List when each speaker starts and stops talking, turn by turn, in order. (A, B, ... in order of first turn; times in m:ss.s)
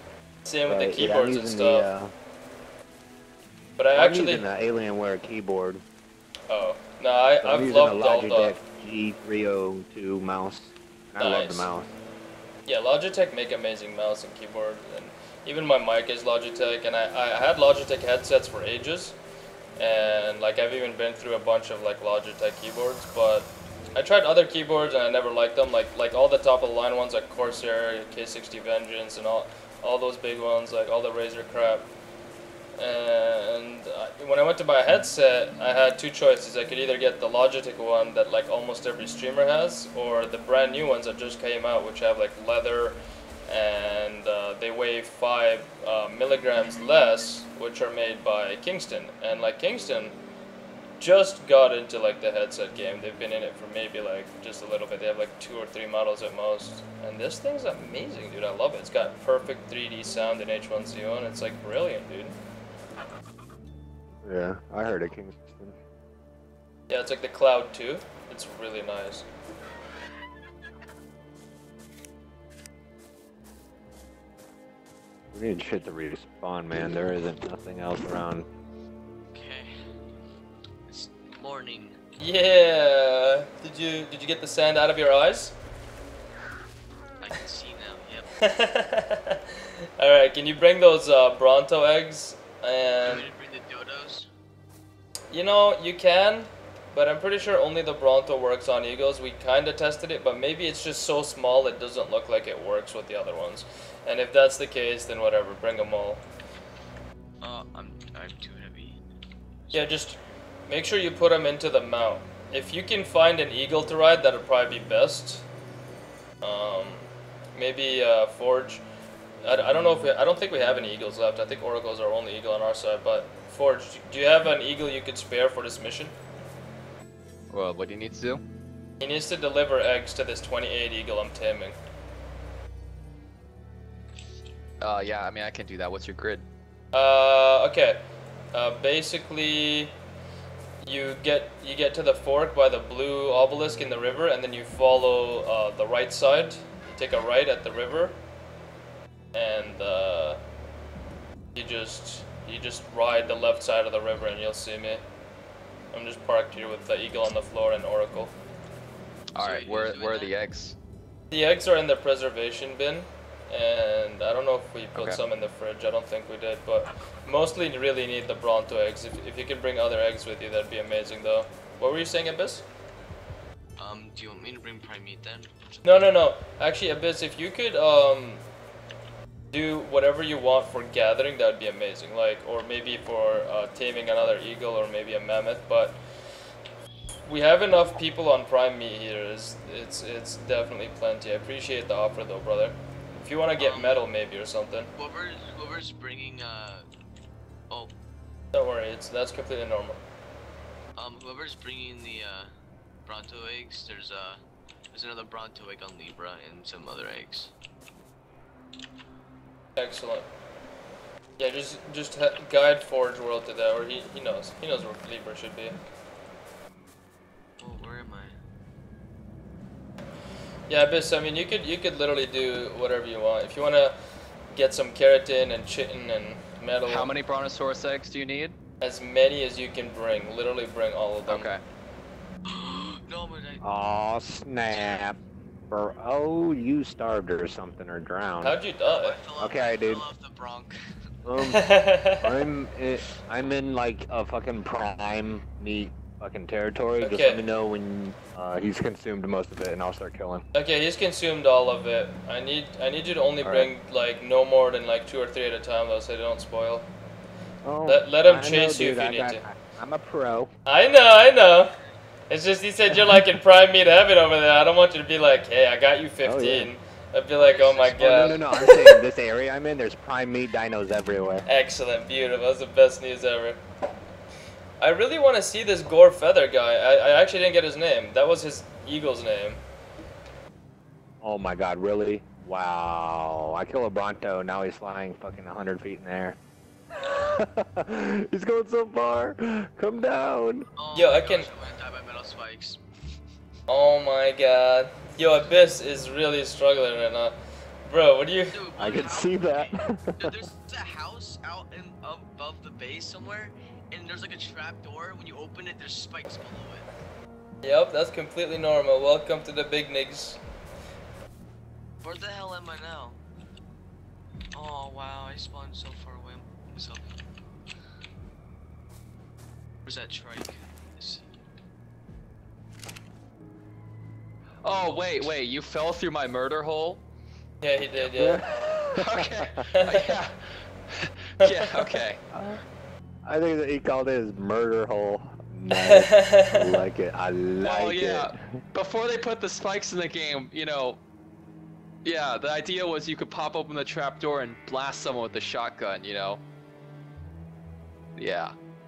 0:00.4-0:01.9 A
0:00.7-0:02.1 B
0:03.8-0:04.5 A
0:03.9-0:05.8 B
0:06.5-0:08.6 A
0:07.4-0:11.9 B
0:11.2-0:11.7 A
0:12.7-0:19.2 A
0:19.8-0:31.9 A
0:32.8-0:50.2 A
0:51.0-1:02.4 A
1:04.2-1:05.8 B
1:06.9-1:09.2 A
1:15.3-1:18.5 B
1:19.3-1:19.7 C
1:20.9-1:22.0 C
1:22.2-1:25.6 A
1:27.2-1:28.3 C
1:28.4-1:29.4 A
1:30.0-1:33.3 A
1:33.0-1:34.3 C
1:35.3-1:46.2 A
1:47.4-1:49.0 C
1:49.6-1:50.1 C
1:49.7-1:55.4 A
1:56.4-1:58.8 A
1:59.4-2:06.1 A
2:07.5-2:08.4 D
2:09.0-2:11.8 A
2:14.8-2:16.5 D
2:16.9-2:18.0 A
2:18.5-2:19.9 A
2:20.8-2:28.2 A
2:29.3-2:30.4 A
2:31.5-2:35.0 A
2:35.9-2:38.3 A
2:39.3-2:40.8 D
2:39.4-2:40.3 C
2:41.3-2:52.6 A
2:45.0-2:45.2 D
2:53.8-2:55.8 C
2:55.8-2:58.4 A
2:59.5-3:06.0 A
3:07.3-3:14.9 A
3:13.6-3:14.1 C
3:15.0-3:16.9 C
3:18.5-3:20.0 A
3:21.0-3:22.5 C
3:23.1-3:24.4 C
3:24.9-3:27.5 C
3:29.8-3:30.3 A
3:31.4-3:35.8 A
3:37.6-3:38.4 C
3:40.7-3:44.0 A
3:44.5-3:47.1 A
3:46.9-3:48.6 D
3:48.8-3:51.5 A
3:51.3-3:51.6 D
3:52.5-3:53.6 C
3:53.6-3:55.2 B
3:54.7-3:55.1 C
3:55.7-3:58.6 B
3:58.4-3:59.2 A
3:58.8-4:00.8 C
3:59.4-4:00.1 B
4:01.2-4:10.4 B
4:01.4-4:02.2 A
4:07.0-4:07.4 A
4:10.5-4:16.9 A
4:13.4-4:13.7 B
4:17.6-4:20.5 B
4:17.9-4:19.4 A
4:20.7-4:21.8 A
4:22.3-4:29.0 A
4:26.2-4:26.7 B
4:27.4-4:28.4 C
4:28.0-4:31.5 B
4:31.5-4:33.6 A
4:34.8-4:39.6 A
4:41.2-4:46.4 B
4:47.0-4:50.7 B
4:50.8-4:52.8 C
4:51.0-4:51.5 A
4:53.7-4:58.6 A
4:58.5-5:06.9 C
4:58.8-5:00.4 B
5:07.6-5:10.4 A
5:12.0-5:13.2 C
5:14.5-5:17.1 C
5:19.9-5:21.3 C
5:24.6-5:27.0 D
5:27.6-5:28.4 A
5:28.1-5:29.5 B
5:29.0-5:32.2 D
5:29.7-5:30.1 A
5:31.4-5:31.9 A
5:32.3-5:32.6 B
5:33.2-5:38.5 B
5:35.8-5:36.8 A
5:37.6-5:41.0 D
5:42.0-5:46.4 D
5:48.2-5:48.6 D